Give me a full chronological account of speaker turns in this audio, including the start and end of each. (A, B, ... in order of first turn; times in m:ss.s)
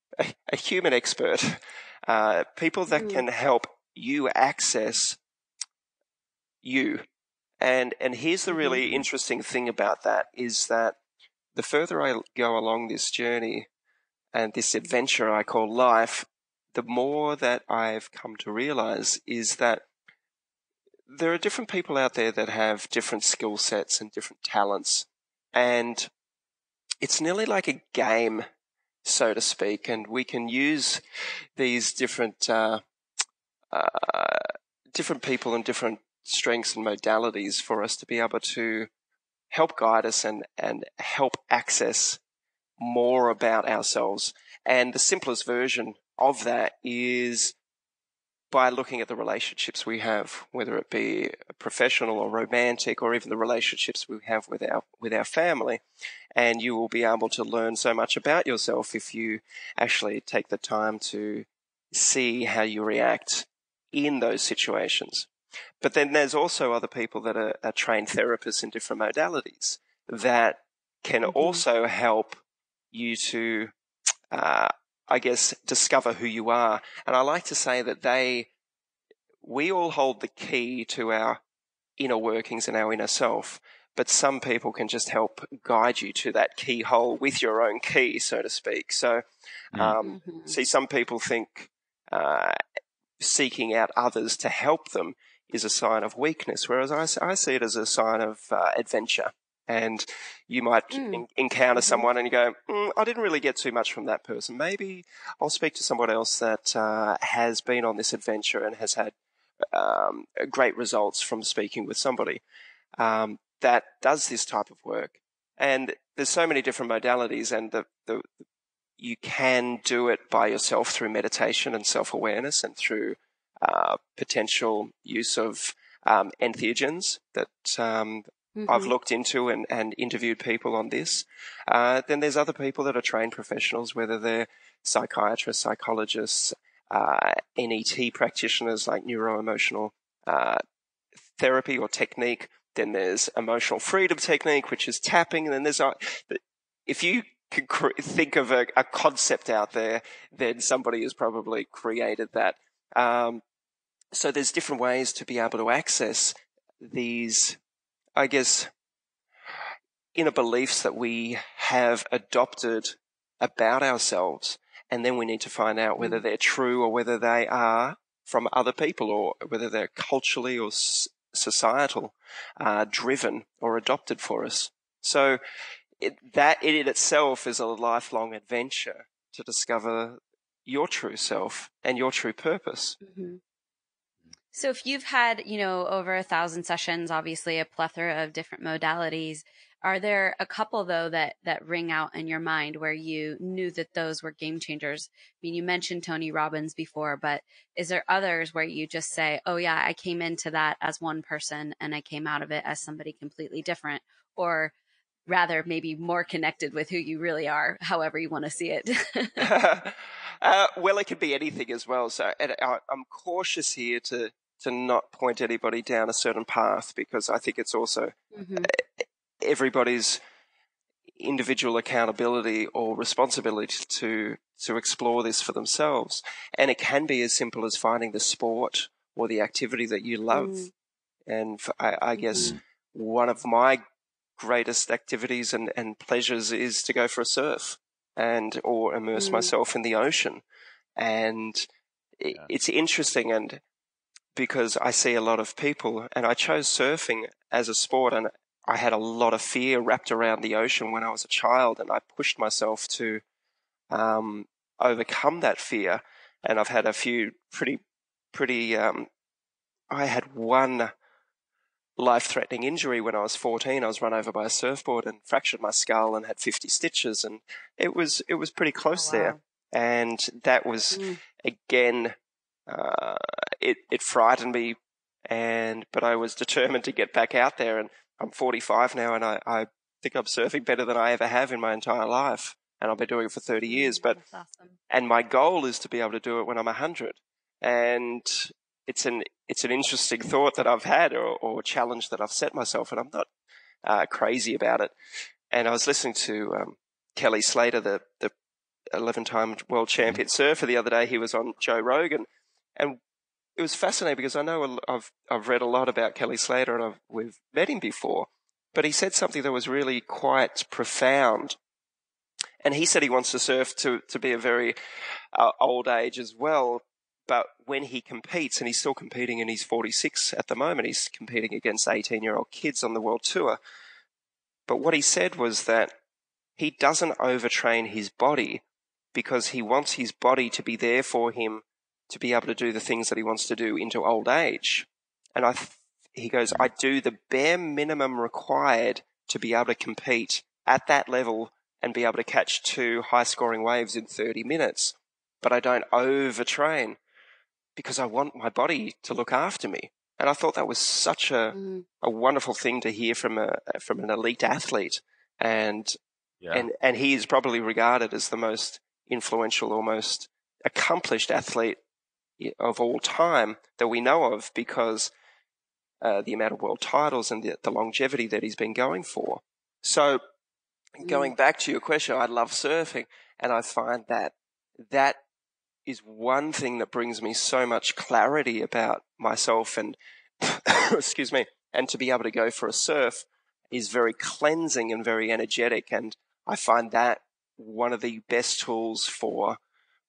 0:00.2-0:05.2 A
0:03.0-0:03.2 B
0:06.6-0:07.0 A
0:07.6-0:11.0 A
0:08.5-0:08.8 B
0:11.5-0:13.7 A
0:14.3-0:19.8 A
0:21.1-0:26.1 A
0:27.0-0:28.4 A
0:29.0-0:31.0 A
0:31.6-0:32.8 A
0:33.7-0:38.9 A
0:39.5-0:42.2 A
0:42.8-0:47.5 A
0:48.5-0:55.8 A
0:56.3-1:05.3 A
1:05.8-1:12.4 A
1:11.3-1:11.6 B
1:12.9-1:13.7 A
1:14.3-1:18.5 A
1:19.4-1:21.4 A
1:22.0-1:32.6 A
1:30.0-1:30.6 B
1:33.2-1:52.4 A
1:40.9-1:41.2 B
1:41.8-1:42.1 B
1:53.0-1:58.3 A
1:59.0-2:20.6 A
2:08.6-2:08.9 B
2:21.4-2:33.4 A
2:34.1-2:37.6 A
2:38.2-2:38.7 A
2:40.1-2:55.4 A
2:46.0-2:46.2 B
2:56.0-3:03.0 A
3:03.0-3:03.4 B
3:04.5-3:24.7 B
3:25.3-3:29.5 B
3:29.4-3:40.2 A
3:38.3-3:38.7 B
3:41.2-3:50.7 A
3:50.3-3:50.7 B
3:51.3-3:53.8 A
3:52.2-3:52.6 B
3:54.4-4:00.4 A
3:59.1-3:59.5 B
4:01.0-4:03.6 A
4:04.3-4:13.2 A
4:13.9-4:17.8 A
4:18.3-4:19.1 A
4:19.9-4:20.9 A
4:22.0-4:32.1 A
4:28.9-4:29.4 B
4:30.9-4:31.2 B
4:32.7-4:34.8 A
4:35.3-4:44.2 A
4:43.7-4:44.8 B
4:44.9-4:53.3 A
4:53.8-4:54.9 A
4:55.5-4:58.3 A
4:58.9-5:03.0 A
5:03.6-5:11.6 A
5:12.6-5:14.8 A
5:15.3-5:23.6 A
5:24.7-5:25.9 A
5:26.6-5:47.0 A
5:47.8-5:56.0 A
5:51.5-5:51.8 B
5:56.5-6:01.8 A
6:02.4-6:05.1 A
6:06.0-6:10.2 A
6:11.0-6:15.2 A
6:11.0-6:11.3 B
6:15.8-6:29.6 A